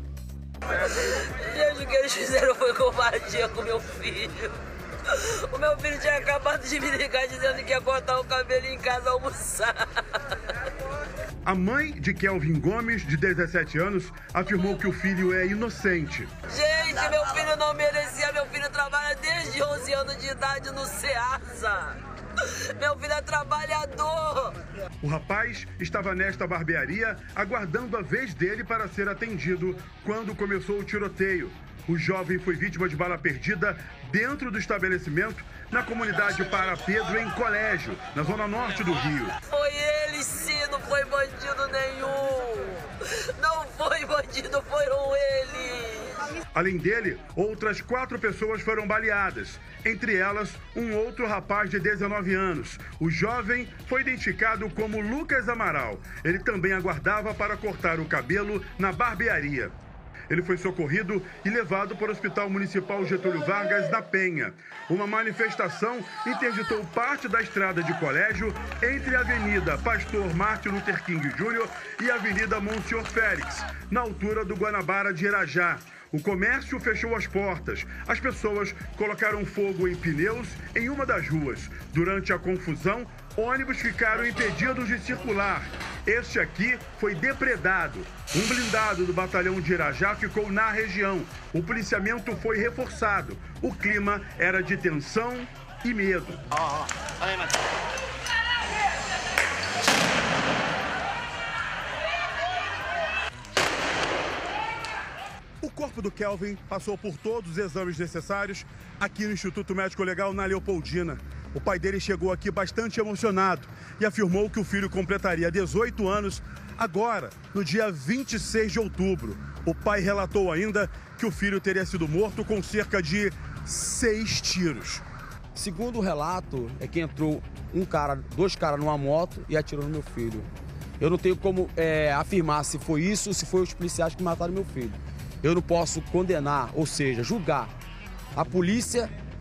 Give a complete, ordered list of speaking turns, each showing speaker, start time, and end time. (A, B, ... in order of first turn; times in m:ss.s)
0:00.7-0:04.5 A
0:05.1-0:10.0 A
0:11.4-0:16.3 B
0:16.5-0:24.6 A
0:25.0-0:39.4 B
0:39.5-0:46.3 A
0:46.5-0:59.7 B
1:00.3-1:36.4 B
1:45.6-2:05.0 B
2:05.6-2:17.7 C
2:18.3-2:19.1 C